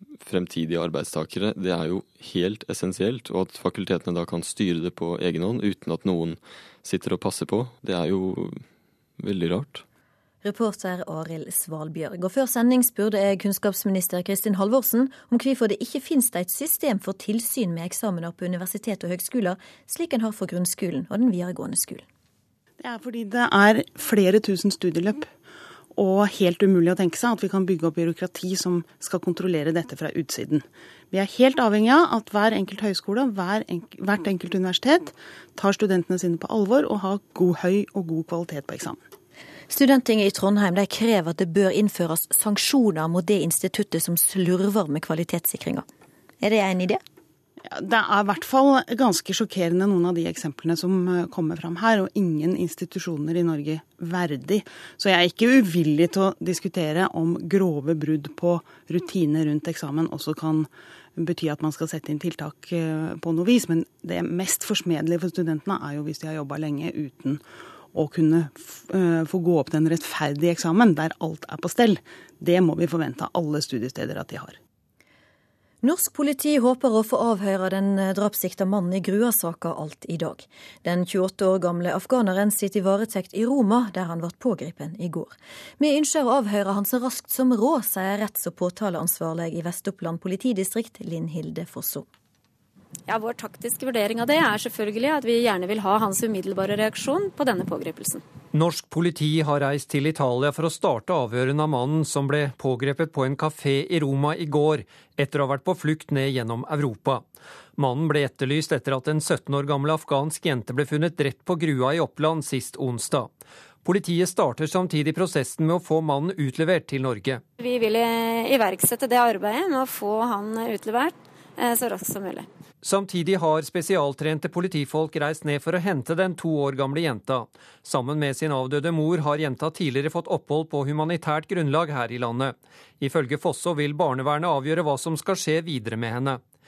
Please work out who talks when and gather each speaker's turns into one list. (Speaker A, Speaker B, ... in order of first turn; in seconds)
Speaker A: 0.2-8.6, 9.2-9.8
Speaker B: 10.4-22.1, 39.7-45.9, 46.4-47.0, 75.8-92.1
Speaker C: 22.8-25.3, 25.9-39.0, 47.7-74.6
Speaker D: 93.1-98.2, 117.6-122.5
Speaker E: 98.5-107.2, 107.8-113.3, 113.8-117.4, 122.8-136.4